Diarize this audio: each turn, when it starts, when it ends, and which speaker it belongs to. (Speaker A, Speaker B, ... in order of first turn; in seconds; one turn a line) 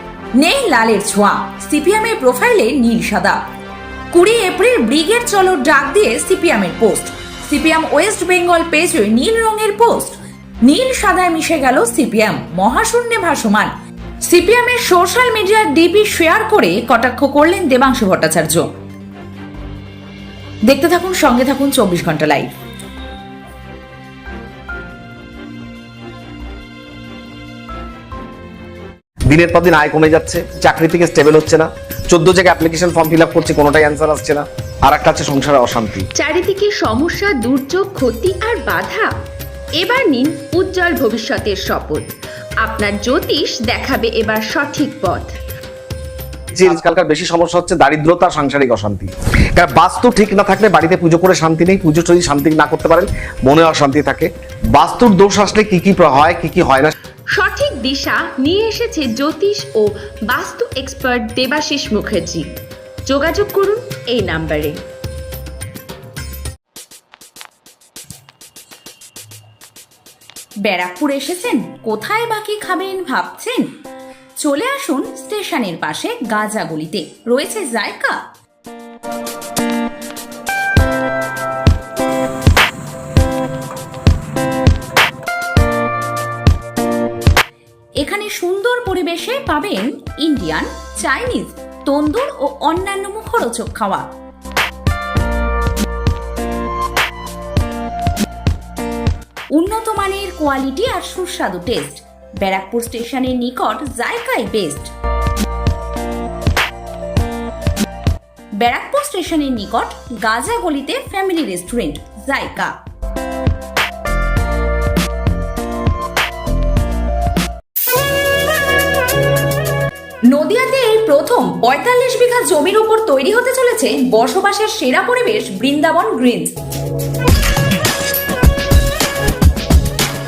Speaker A: 0.3-3.4
Speaker A: 4.1-13.7
Speaker A: 14.3-18.7
Speaker A: 20.7-22.5
Speaker B: 29.3-36.1
Speaker C: 36.2-39.1
Speaker C: 39.8-42.1
Speaker C: 42.6-45.3
Speaker B: 46.5-57.0
Speaker C: 57.3-62.5
Speaker C: 63.1-64.8
Speaker A: 70.6-73.7
Speaker A: 74.4-78.2
Speaker A: 88.0-94.1
Speaker A: 99.5-104.9
Speaker A: 108.6-112.8
Speaker A: 120.3-126.5